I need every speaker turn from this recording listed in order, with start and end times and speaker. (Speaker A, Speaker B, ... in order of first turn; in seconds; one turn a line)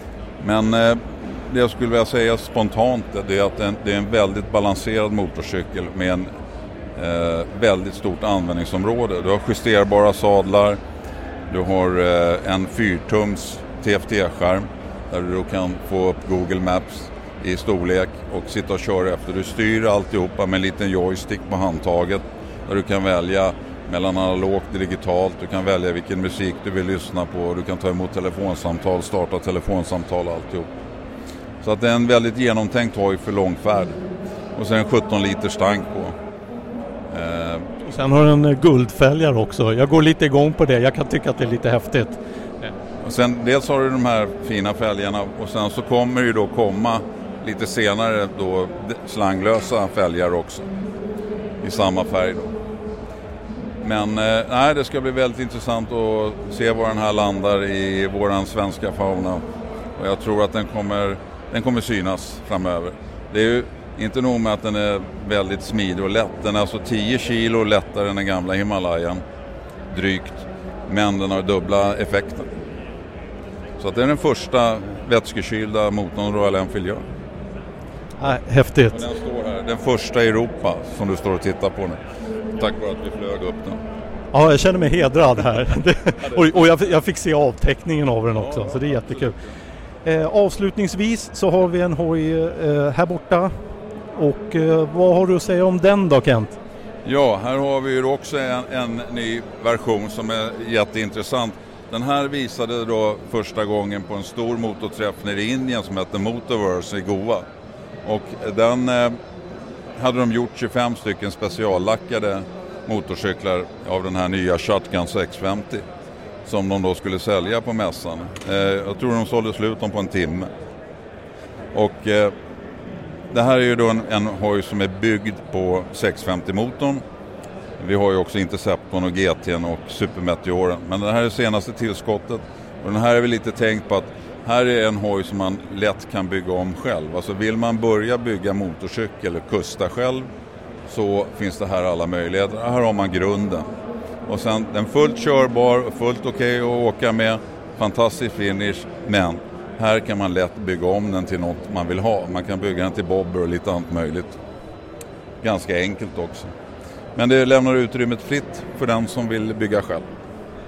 Speaker A: 0.4-6.3
Speaker A: 7.0-10.8
Speaker A: 11.5-30.7
Speaker A: 31.6-34.0
Speaker A: 34.6-36.2
Speaker A: 37.1-37.7
Speaker B: 37.8-42.7
Speaker A: 43.0-50.7
Speaker A: 51.6-52.5
Speaker A: 53.8-59.4
Speaker A: 60.0-69.2
Speaker A: 69.9-72.5
Speaker A: 73.8-77.1
Speaker B: 78.2-79.0
Speaker A: 78.9-82.0
Speaker A: 82.6-83.8
Speaker B: 84.3-89.4
Speaker A: 86.2-86.7
Speaker A: 88.3-89.3
Speaker B: 90.0-93.6
Speaker B: 94.1-96.6
Speaker A: 97.0-107.5
Speaker A: 108.0-109.2
Speaker A: 110.0-115.8
Speaker A: 116.5-120.5
Speaker A: 121.7-122.3
Speaker A: 123.3-127.0
Speaker A: 127.8-140.3
Speaker A: 140.9-143.7
Speaker A: 144.3-154.4
Speaker A: 155.4-156.5
Speaker A: 157.2-160.1